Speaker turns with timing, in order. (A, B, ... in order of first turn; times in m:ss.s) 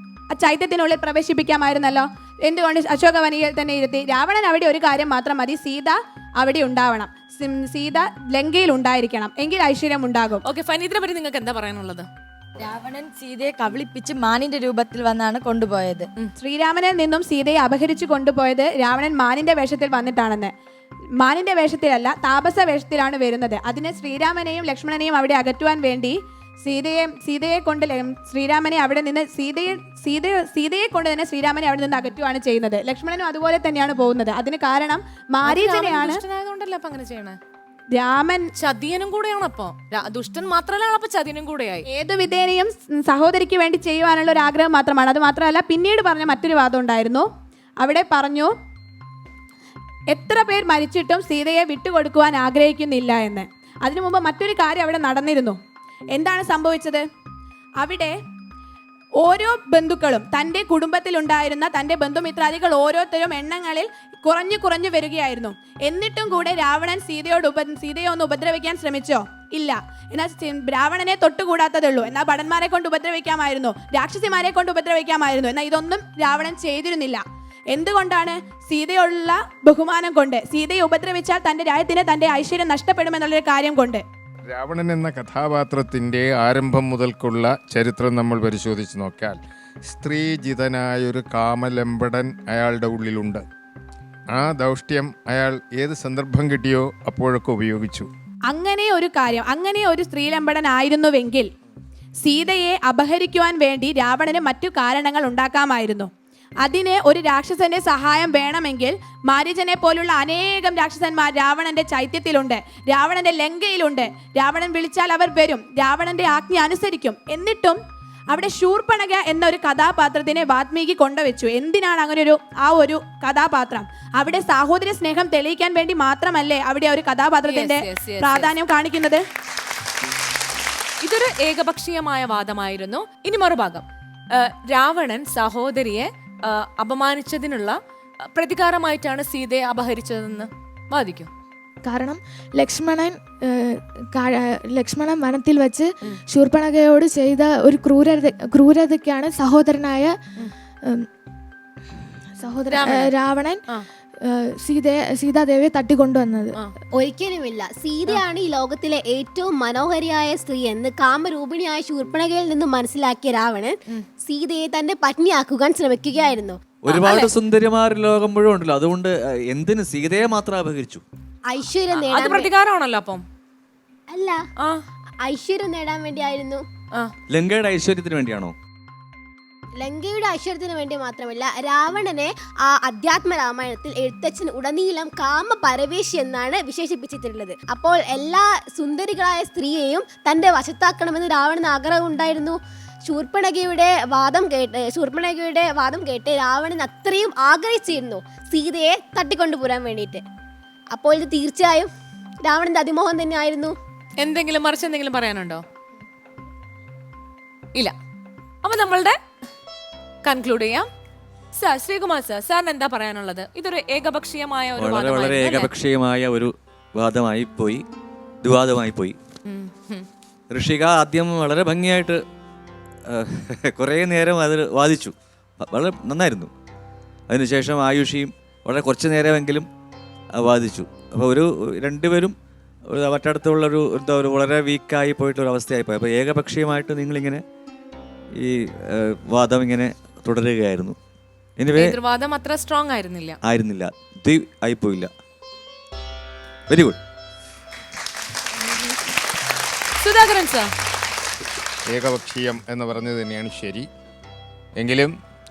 0:00.3-0:10.4 A
0:10.5-0:12.1 B
0:12.6-0:16.1 C
0:16.4-0:20.5 A
0:21.2-0:36.2 A
0:35.4-0:37.4 B
0:37.9-0:38.5 A
0:38.6-0:41.8 B
0:41.9-0:47.3 A
0:47.8-0:48.5 A
0:50.1-0:55.6 A
0:56.1-0:57.0 A
0:57.8-0:58.1 A
0:59.2-1:24.0 A
1:24.4-1:33.4 D
1:34.3-1:38.1 D
1:38.5-1:41.5 A
1:42.2-1:46.1 A
1:46.6-1:57.8 A
1:58.3-2:09.2 A
2:07.5-2:08.5 B
2:11.0-2:17.8 B
2:18.3-2:21.3 B
2:21.8-2:30.1 E
2:32.4-2:33.6 E
2:32.7-2:33.1 B
2:34.2-2:36.6 E
2:37.0-2:46.6 F
2:46.8-2:51.0 G
2:51.5-2:52.5 F
2:52.0-2:53.2 B
2:54.1-2:54.4 F
2:55.2-2:56.6 F
2:57.3-2:58.5 G
2:59.8-3:20.2 F
3:20.9-3:21.9 F
3:22.4-3:23.7 F
3:24.2-3:25.6 B
3:28.6-3:29.2 B
3:30.2-3:30.9 B
3:31.6-3:35.7 B
3:34.8-3:37.8 G
3:38.4-3:39.2 G
3:39.5-3:40.1 B
3:40.5-3:42.2 G
3:43.1-3:46.5 G
3:47.3-3:49.7 G
3:50.4-3:52.3 G
3:52.9-3:57.4 G
3:58.3-4:01.0 G
4:01.6-4:02.0 G
4:01.8-4:03.4 B
4:03.4-4:05.1 G
4:06.7-4:07.0 G
4:08.6-4:08.9 B
4:10.0-4:10.7 B
4:11.9-4:13.9 D
4:14.8-4:15.1 D